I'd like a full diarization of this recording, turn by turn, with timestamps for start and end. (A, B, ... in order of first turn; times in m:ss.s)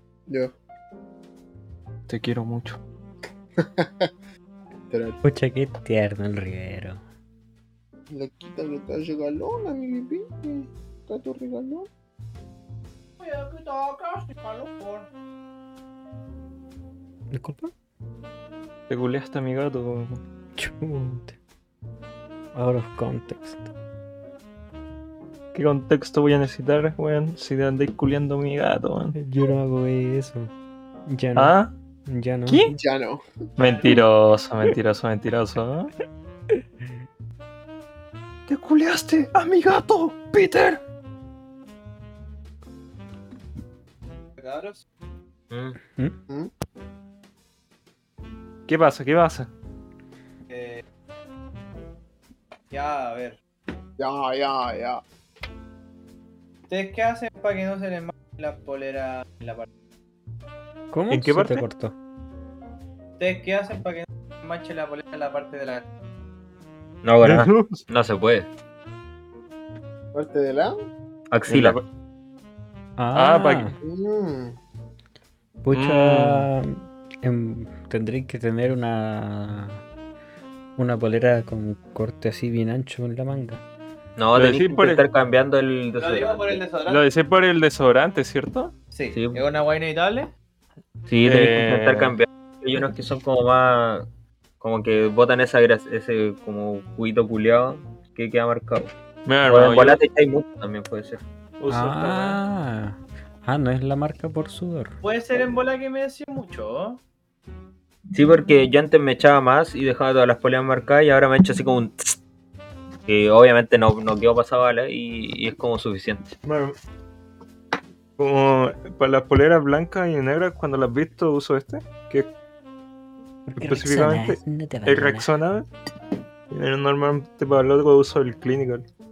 0:00.3-0:00.5 A
0:02.1-0:02.8 B
0:03.6-0:04.1 A
0:04.9-0:05.2 A
0:05.2-0:07.0 C
0:08.1-0:11.9 A
0:13.2-0:15.1 D
0:17.3-0:17.7 C
0:18.9-0:20.2 B
0:20.6-0:21.3 C
0:22.5-0:23.7 C
0:25.5-0:29.2 B
0:29.1-0:30.5 C
0:31.1-0:32.7 C
0:31.4-0:31.7 B
0:32.5-0:32.7 B
0:32.7-0:33.2 A
0:33.6-0:35.9 B
0:38.5-0:40.8 B
0:44.4-0:44.8 D
0:45.5-0:45.8 E
0:48.7-0:49.5 B
0:50.5-0:50.8 D
0:52.7-0:53.4 D
0:54.0-0:55.0 A
0:56.7-0:59.7 D
1:00.9-1:01.9 C
1:01.1-1:01.6 B
1:03.2-1:05.9 D
1:07.0-1:08.5 E
1:07.2-1:07.8 B
1:10.1-1:10.8 A
1:11.3-1:11.8 E
1:11.5-1:11.8 B
1:13.0-1:13.8 C
1:13.1-1:13.7 B
1:13.7-1:14.6 A
1:15.6-1:19.8 C
1:15.7-1:16.5 B
1:20.8-1:23.6 C
1:24.2-1:26.6 E
1:24.3-1:25.0 B
1:26.0-1:27.0 D
1:26.9-1:28.7 B
1:28.9-1:30.3 D
1:29.1-1:29.4 E
1:31.1-1:34.0 E
1:31.2-1:32.2 B
1:34.6-1:38.9 E
1:39.2-1:40.0 B
1:39.4-1:41.2 E
1:41.6-1:42.4 B
1:41.7-1:44.9 C
1:45.0-1:47.0 D
1:48.1-1:52.2 E
1:53.1-1:56.4 E
1:56.4-1:56.8 A
1:58.2-2:02.3 B
2:03.5-2:05.3 C
2:03.6-2:05.7 B
2:06.5-2:08.8 B